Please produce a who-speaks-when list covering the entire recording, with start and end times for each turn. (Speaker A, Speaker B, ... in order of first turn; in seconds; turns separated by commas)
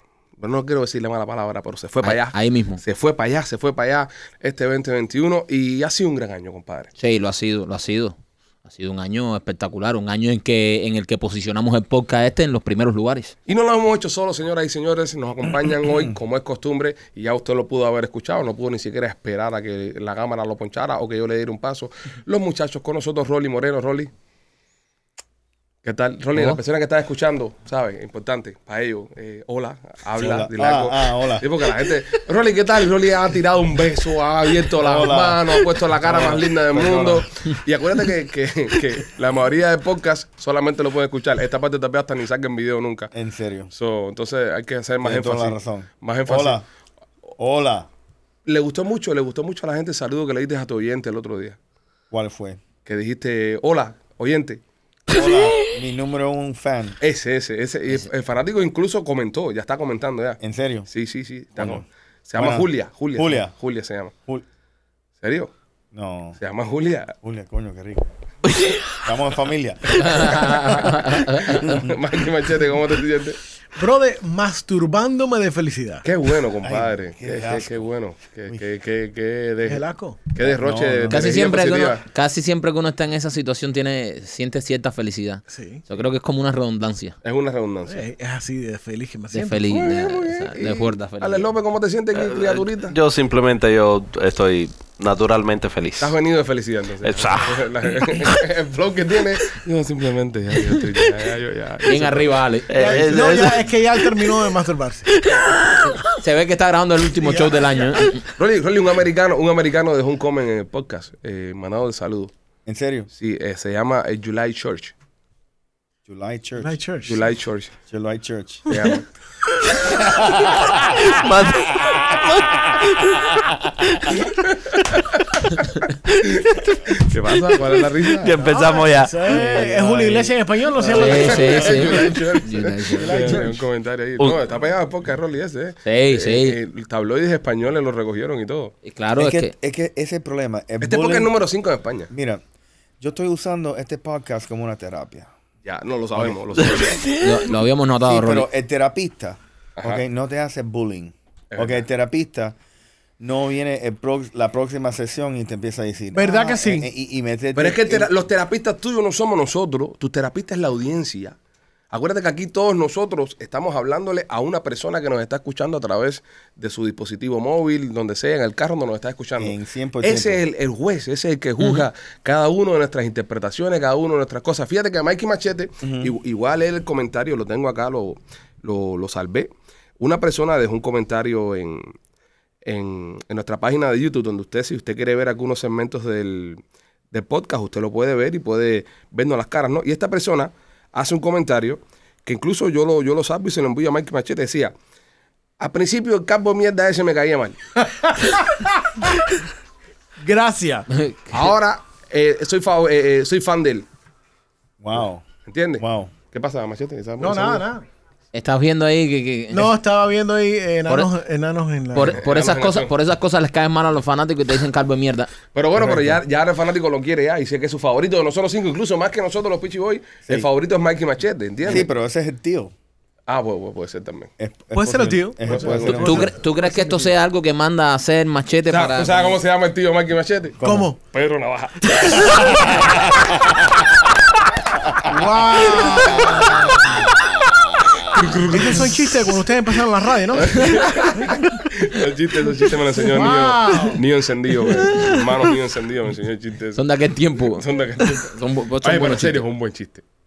Speaker A: 0.4-6.9, Speaker B: 2.0-2.8, Speaker B: 7.0-13.3, Speaker A: 13.5-24.1, Speaker C: 15.8-16.2, Speaker A: 25.8-43.1, Speaker C: 30.2-31.5, Speaker C: 34.7-37.2, Speaker C: 43.1-43.7, Speaker A: 43.7-46.6, Speaker C: 45.0-46.6, Speaker C: 47.4-47.9, Speaker A: 48.5-51.6, Speaker C: 52.1-52.6, Speaker A: 52.9-54.6, Speaker C: 55.1-57.0, Speaker A: 57.0-64.1, Speaker C: 60.4-60.9, Speaker C: 61.6-63.5, Speaker A: 65.2-65.5, Speaker C: 65.9-66.4, Speaker A: 66.4-67.1, Speaker C: 67.2-68.2, Speaker D: 68.5-68.9, Speaker C: 68.9-70.5, Speaker A: 69.9-73.4, Speaker B: 70.0-71.6, Speaker C: 71.6-71.9, Speaker E: 73.7-76.0, Speaker A: 76.0-82.0, Speaker C: 76.6-77.9, Speaker E: 79.7-80.2, Speaker C: 80.4-81.4, Speaker B: 81.1-87.2, Speaker E: 85.5-85.8, Speaker A: 87.2-88.0, Speaker E: 87.9-89.7, Speaker B: 89.3-91.5, Speaker A: 89.7-93.0, Speaker D: 92.1-96.2, Speaker A: 96.0-102.3, Speaker D: 97.0-98.4, Speaker D: 100.6-101.2, Speaker B: 101.8-103.1, Speaker D: 102.7-104.4, Speaker E: 102.8-105.1, Speaker D: 105.1-106.2, Speaker B: 106.1-108.2, Speaker E: 107.2-107.8, Speaker A: 108.3-112.3, Speaker C: 112.7-113.1, Speaker A: 113.1-114.9, Speaker C: 116.1-116.7, Speaker E: 116.6-117.2, Speaker A: 117.0-117.7, Speaker C: 117.9-118.7, Speaker A: 118.7-119.1, Speaker C: 120.0-120.8, Speaker D: 120.4-125.2, Speaker A: 124.3-128.4, Speaker D: 126.1-126.8, Speaker D: 127.5-129.2, Speaker E: 128.3-132.2, Speaker C: 129.2-130.3, Speaker A: 130.8-138.7, Speaker B: 130.9-133.4, Speaker E: 133.0-133.6, Speaker C: 133.1-133.4, Speaker B: 135.8-136.6, Speaker B: 138.8-139.5, Speaker C: 139.2-141.3, Speaker A: 140.8-142.1, Speaker C: 142.1-142.4, Speaker C: 143.0-145.3, Speaker A: 145.6-147.1, Speaker C: 146.1-146.4, Speaker D: 146.8-147.4, Speaker B: 147.2-148.5, Speaker C: 148.0-152.6, Speaker A: 149.8-150.0, Speaker A: 151.5-151.8, Speaker C: 153.2-158.1, Speaker E: 156.1-156.9, Speaker A: 157.6-161.4, Speaker A: 161.9-179.5, Speaker C: 169.4-170.4, Speaker C: 175.8-176.1, Speaker A: 180.0-181.9, Speaker A: 182.7-194.7, Speaker A: 195.6-197.6, Speaker E: 197.8-199.1, Speaker E: 200.2-200.9, Speaker B: 200.9-201.3, Speaker A: 201.3-203.9, Speaker C: 204.8-205.2, Speaker A: 205.5-207.6, Speaker C: 205.8-206.1, Speaker E: 207.2-207.8, Speaker B: 208.3-209.7, Speaker E: 209.5-212.2, Speaker B: 211.9-215.3, Speaker A: 212.0-212.9, Speaker A: 215.5-221.9, Speaker C: 215.8-216.2, Speaker C: 221.6-222.7, Speaker A: 223.3-224.3, Speaker C: 224.4-226.4, Speaker E: 224.7-227.1, Speaker A: 225.5-226.2, Speaker B: 226.0-229.4, Speaker A: 228.7-233.3, Speaker C: 230.6-230.9, Speaker E: 230.6-231.0, Speaker C: 232.3-233.3, Speaker E: 235.1-236.7, Speaker A: 236.1-236.5, Speaker C: 236.2-238.0, Speaker A: 238.1-239.2, Speaker E: 238.5-241.5, Speaker A: 240.3-246.8, Speaker E: 242.9-244.0, Speaker B: 246.8-249.4, Speaker A: 247.4-250.0